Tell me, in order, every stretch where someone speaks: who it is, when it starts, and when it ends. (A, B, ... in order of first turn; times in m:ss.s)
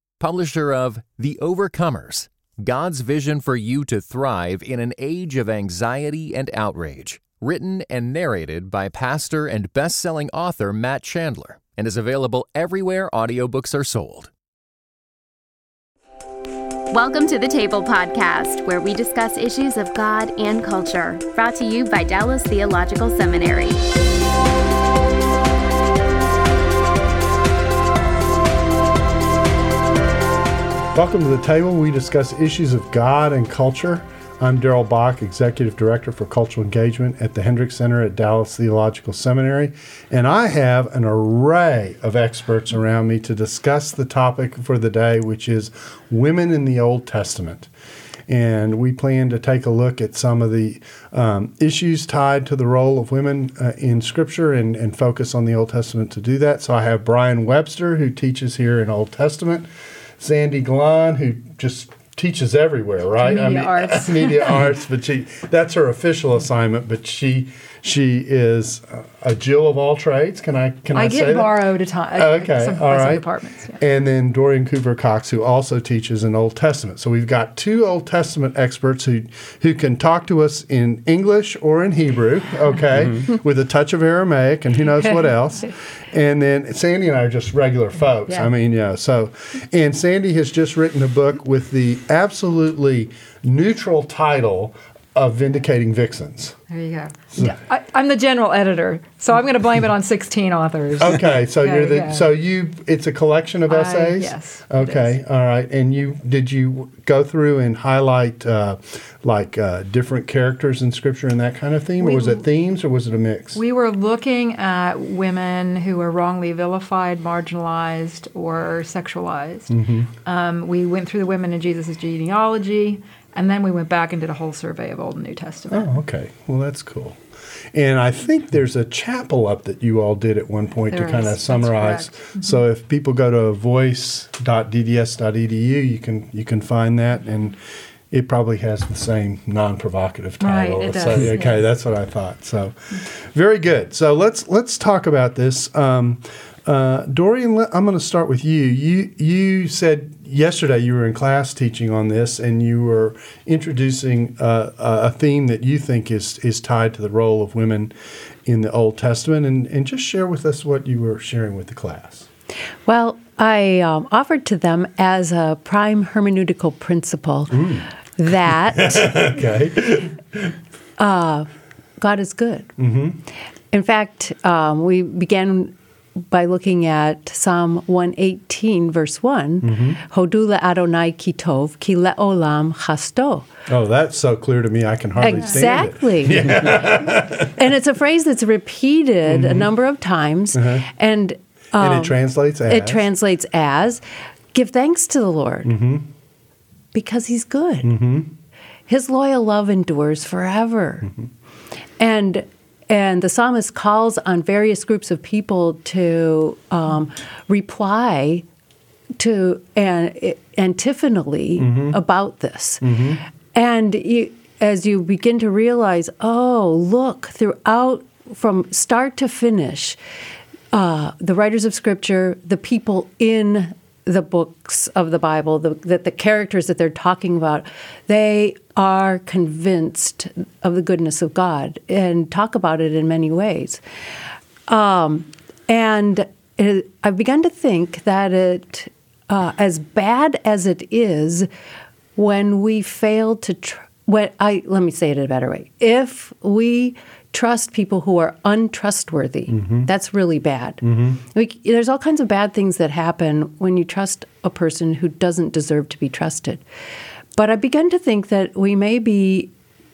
0:00.2-0:14.3 A
0:16.9-0:23.8 B
0:30.9-0:47.7 C
0:48.3-0:59.7 C
1:00.2-1:11.6 C
1:03.2-1:04.6 D
1:10.9-1:13.8 D
1:12.1-1:13.2 C
1:13.8-1:36.6 C
1:36.7-1:42.2 D
1:41.0-1:53.6 C
1:43.7-1:45.1 D
1:52.0-1:52.4 D
1:53.5-1:59.7 D
1:59.7-2:00.1 C
2:00.2-2:05.9 D
2:05.7-2:07.2 C
2:07.7-2:17.6 C
2:10.9-2:12.6 D
2:18.1-2:37.9 C
2:20.4-2:21.6 D
2:38.4-2:42.3 C
2:42.9-2:49.2 E
2:47.5-2:47.9 C
2:48.5-2:50.5 C
2:51.0-2:51.5 E
2:52.0-2:52.7 E
2:52.8-2:53.2 C
2:53.7-2:55.7 E
2:56.3-3:03.4 E
2:59.6-3:00.0 C
3:03.7-3:07.5 C
3:05.2-3:14.0 E
3:09.2-3:09.7 C
3:10.5-3:10.8 C
3:11.8-3:13.0 C
3:14.5-3:15.8 E
3:15.6-3:16.1 C
3:16.9-3:18.0 E
3:17.8-3:18.3 C
3:18.9-3:21.1 E
3:22.0-3:28.4 E
3:29.2-3:33.0 E
3:31.6-3:32.0 C
3:32.8-3:33.2 C
3:33.5-3:40.0 E
3:40.7-3:53.8 E
3:54.7-4:01.5 E
4:02.2-4:16.6 E
4:09.5-4:09.9 C
4:10.8-4:11.2 C
4:17.4-4:19.5 E